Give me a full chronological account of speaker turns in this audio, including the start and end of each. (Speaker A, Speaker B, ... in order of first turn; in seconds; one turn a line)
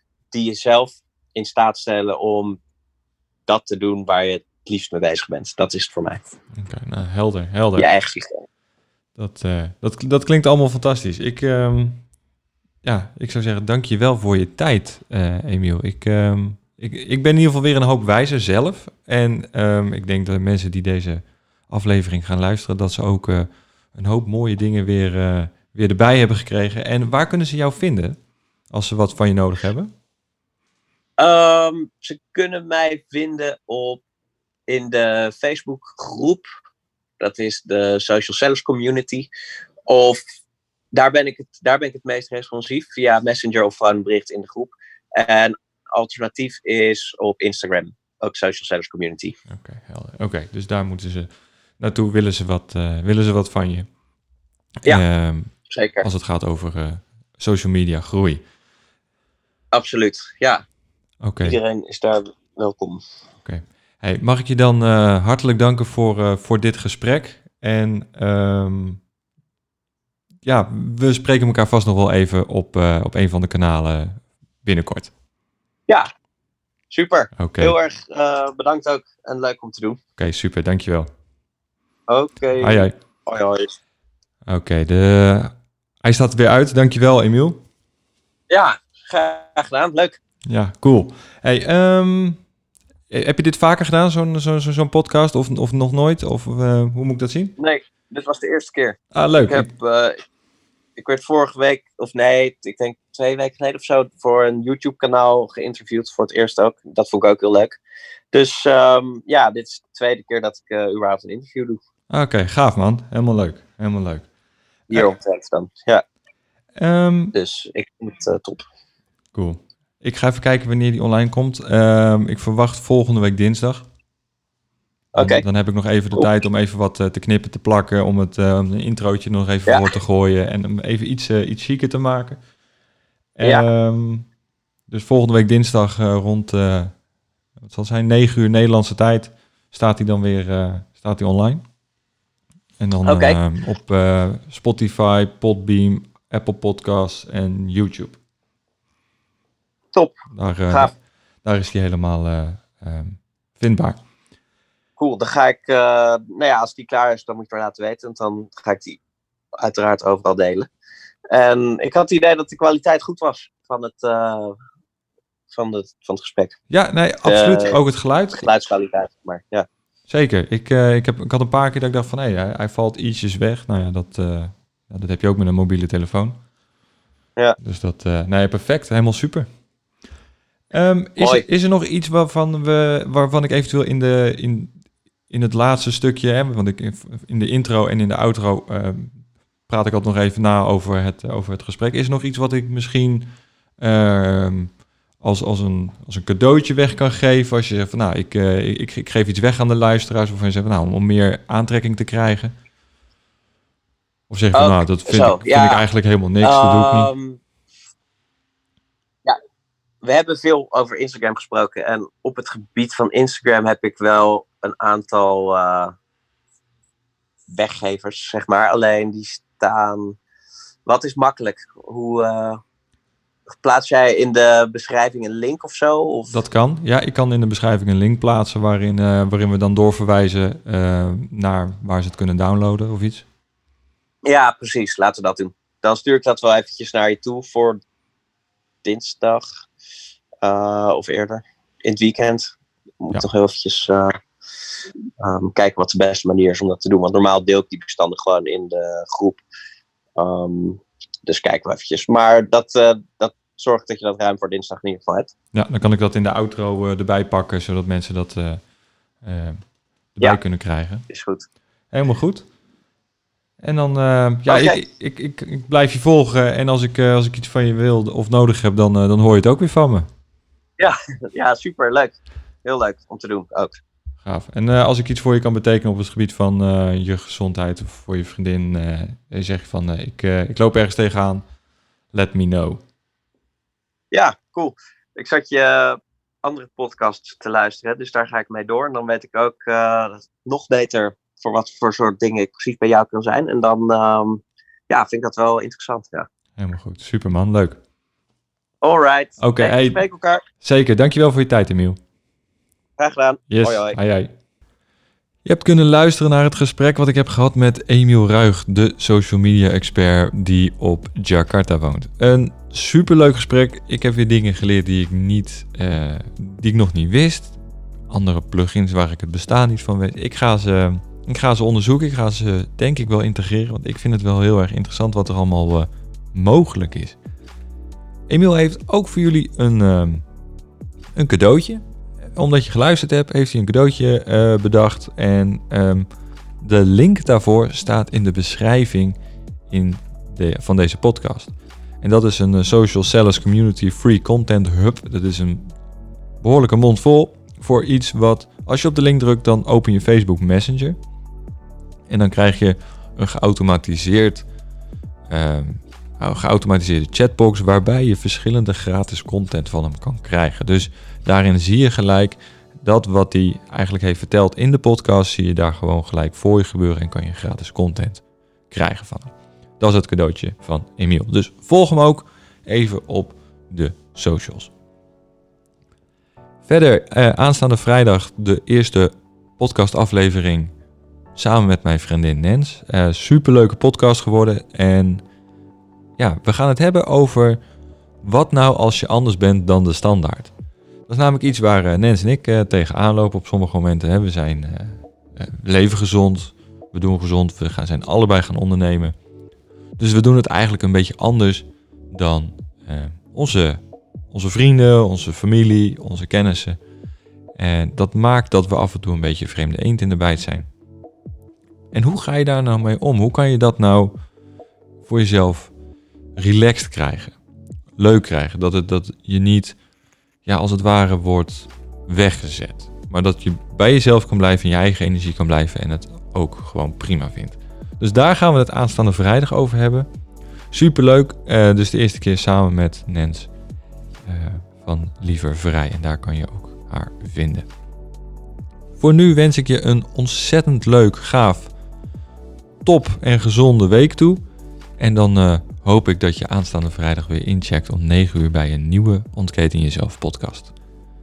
Speaker A: 0.3-2.6
Speaker A: 3.5-6.2
Speaker B: 6.5-7.9
Speaker A: 7.8-8.4
Speaker B: 9.2-12.1
Speaker B: 12.8-28.2
Speaker B: 28.7-29.9
Speaker A: 31.2-34.0
Speaker A: 34.7-36.4
Speaker A: 37.2-39.3
Speaker A: 39.9-40.2
Speaker A: 40.9-49.3
Speaker B: 49.5-53.9
Speaker B: 54.8-58.4
Speaker A: 55.5-56.0
Speaker A: 59.7-60.6
Speaker B: 61.2-61.6
Speaker A: 61.4-63.0
Speaker B: 63.4-69.0
Speaker B: 70.4-75.1
Speaker A: 76.9-80.0
Speaker B: 77.4-77.8
Speaker B: 80.2-81.1
Speaker A: 82.1-83.8
Speaker B: 82.6-82.9
Speaker B: 84.5-87.6
Speaker A: 88.5-90.2
Speaker B: 90.5-92.4
Speaker B: 93.1-97.5
Speaker A: 97.6-100.2
Speaker B: 99.1-99.7
Speaker A: 101.0-107.8
Speaker A: 108.3-111.8
Speaker B: 112.1-114.3
Speaker A: 114.9-116.0
Speaker B: 116.8-117.3
Speaker A: 117.3-118.6
Speaker B: 119.3-123.9
Speaker A: 125.1-125.4
Speaker B: 125.2-132.4
Speaker B: 133.3-134.3
Speaker B: 134.9-137.0
Speaker B: 137.6-141.6
Speaker B: 142.8-148.2
Speaker A: 143.1-143.4
Speaker B: 150.3-154.0
Speaker A: 155.0-159.0
Speaker A: 159.6-160.7
Speaker A: 161.3-164.6
Speaker A: 165.5-166.6
Speaker B: 166.7-168.5
Speaker A: 167.2-167.7
Speaker A: 168.3-169.7
Speaker B: 170.1-176.4
Speaker B: 177.6-179.5
Speaker B: 180.7-202.6
Speaker A: 181.2-181.4
Speaker B: 204.3-207.1
Speaker A: 204.5-205.8
Speaker A: 206.4-207.4
Speaker A: 210.0-215.9
Speaker A: 217.5-220.2
Speaker A: 220.8-222.6
Speaker A: 223.5-226.3
Speaker B: 226.3-233.3
Speaker A: 234.2-237.8
Speaker A: 238.8-239.4
Speaker A: 240.4-244.1
Speaker A: 245.2-249.4
Speaker A: 250.2-255.3
Speaker B: 255.5-258.7
Speaker B: 259.2-261.0
Speaker A: 261.1-261.4
Speaker B: 261.9-262.5
Speaker B: 263.6-270.1
Speaker A: 264.5-264.8
Speaker A: 270.8-273.7
Speaker B: 274.2-281.5
Speaker B: 282.1-282.8
Speaker A: 284.1-296.3
Speaker B: 296.6-297.8
Speaker A: 298.8-300.4
Speaker B: 299.4-300.0
Speaker B: 300.6-302.0
Speaker A: 303.0-304.0
Speaker B: 303.5-304.3
Speaker B: 305.4-327.2
Speaker B: 328.3-330.2
Speaker B: 331.1-336.1
Speaker B: 336.6-339.2
Speaker B: 339.7-345.8
Speaker B: 346.4-351.0
Speaker B: 352.1-354.5
Speaker B: 355.3-374.7
Speaker B: 376.6-380.7
Speaker B: 381.4-385.2
Speaker B: 386.2-387.6
Speaker B: 388.2-390.5
Speaker B: 391.1-399.1
Speaker B: 400.0-406.8
Speaker B: 407.6-410.7
Speaker B: 411.9-414.1
Speaker B: 415.0-415.7
Speaker B: 416.4-417.4
Speaker B: 418.0-419.8
Speaker B: 420.4-430.1
Speaker B: 430.7-433.5
Speaker B: 434.2-437.7
Speaker B: 439.0-441.7
Speaker B: 442.8-444.4
Speaker B: 445.0-450.7